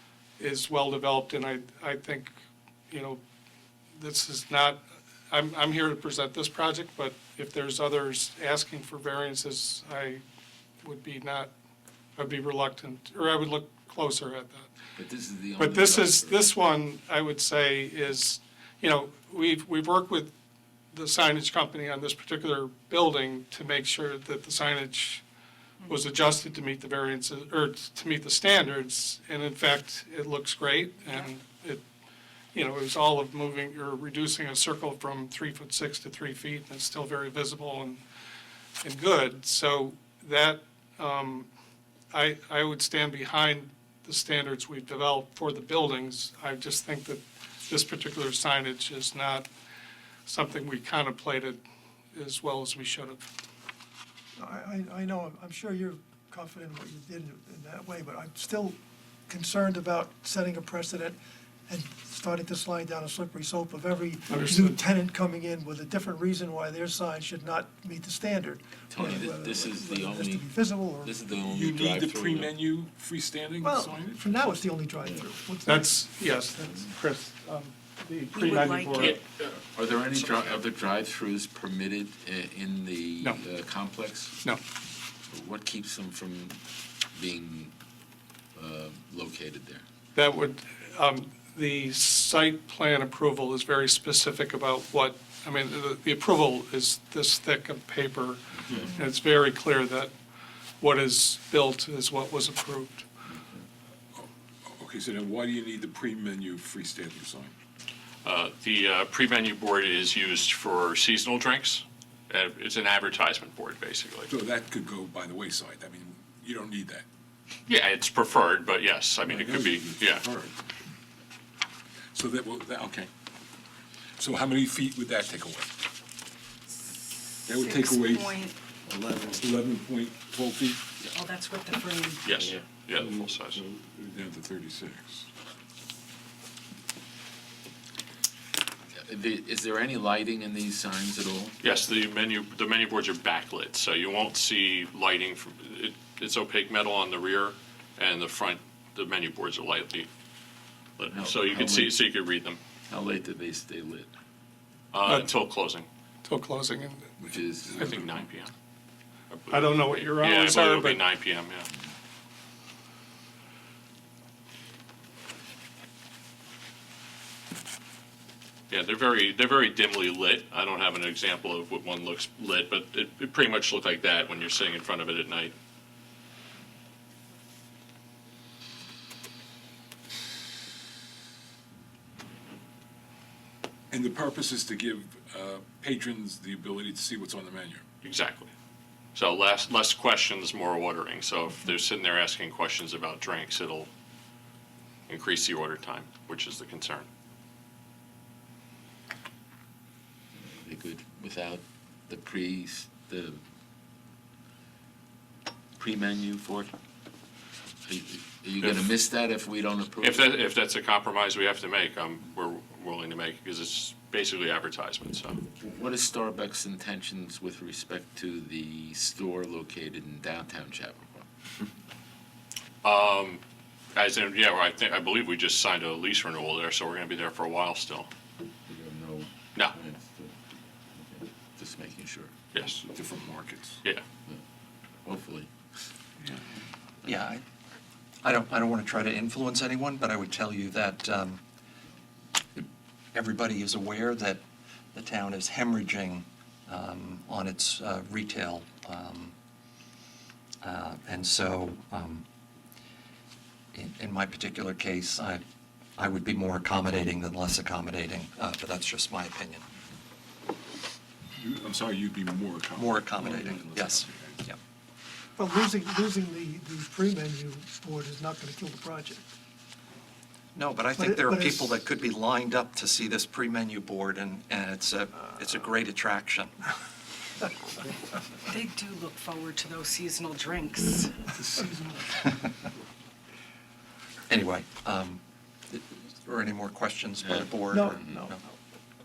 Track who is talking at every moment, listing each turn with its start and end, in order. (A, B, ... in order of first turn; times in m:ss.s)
0:00.4-0:02.3 A
0:02.9-0:03.2 A
0:04.0-0:10.2 A
0:10.8-0:11.5 A
0:12.2-0:14.7 A
0:15.0-0:16.5 B
0:15.6-0:20.3 A
0:20.9-0:25.2 A
0:25.9-0:31.8 A
0:32.5-0:38.0 A
0:38.8-0:41.5 A
0:42.1-0:49.5 A
0:50.2-0:51.6 A
0:52.1-0:53.2 A
0:54.4-0:58.8 C
0:59.3-1:11.2 C
1:04.3-1:04.8 A
1:08.9-1:12.6 B
1:11.3-1:14.6 D
1:13.6-1:16.0 C
1:15.0-1:15.3 B
1:15.6-1:19.2 A
1:18.3-1:19.2 E
1:19.0-1:19.5 F
1:19.7-1:24.3 B
1:20.2-1:20.6 F
1:25.3-1:26.6 B
1:27.1-1:27.7 B
1:28.5-1:29.8 B
1:30.1-1:40.1 A
1:40.8-1:43.0 A
1:43.3-1:43.6 B
1:44.1-1:47.5 D
1:48.2-1:54.3 F
1:54.3-1:57.0 D
1:57.7-2:00.2 F
1:59.2-2:00.6 D
2:02.1-2:03.1 D
2:04.2-2:05.7 D
2:07.3-2:08.5 E
2:07.5-2:08.3 D
2:09.2-2:10.8 D
2:11.1-2:12.4 E
2:12.2-2:13.6 F
2:12.4-2:12.8 B
2:14.0-2:15.3 D
2:19.0-2:21.5 B
2:21.6-2:30.1 F
2:31.0-2:32.6 F
2:31.1-2:32.0 B
2:32.9-2:34.1 B
2:34.9-2:35.9 F
2:35.0-2:35.3 A
2:36.2-2:37.1 A
2:37.2-2:38.2 D
2:37.2-2:37.8 B
2:37.8-2:38.5 F
2:39.3-2:41.7 F
2:39.5-2:41.0 A
2:48.7-2:55.5 F
3:03.9-3:07.8 D
3:08.0-3:08.5 F
3:09.1-3:13.9 F
3:15.1-3:17.1 F
3:20.4-3:23.4 B
3:25.8-3:26.7 B
3:27.8-3:30.4 B
3:28.6-3:28.9 F
3:30.0-3:35.4 F
3:35.5-3:41.2 B
3:42.8-3:43.4 F
3:43.9-3:48.1 F
3:48.6-3:50.3 B
3:50.9-3:52.3 B
3:52.5-3:52.8 F
3:52.8-3:53.8 D
3:55.0-3:55.5 B
3:57.0-3:57.4 G
3:58.2-4:01.4 G
4:02.6-4:09.3 G
4:10.6-4:12.2 G
4:13.7-4:15.4 G
4:16.0-4:19.6 G
4:21.4-4:24.4 D
4:22.8-4:24.6 G
4:25.4-4:29.3 C
4:30.5-4:36.5 G
4:31.0-4:31.8 C
4:38.5-4:41.2 E
4:41.4-4:42.0 D
4:44.3-4:48.4 G
4:47.7-4:48.3 C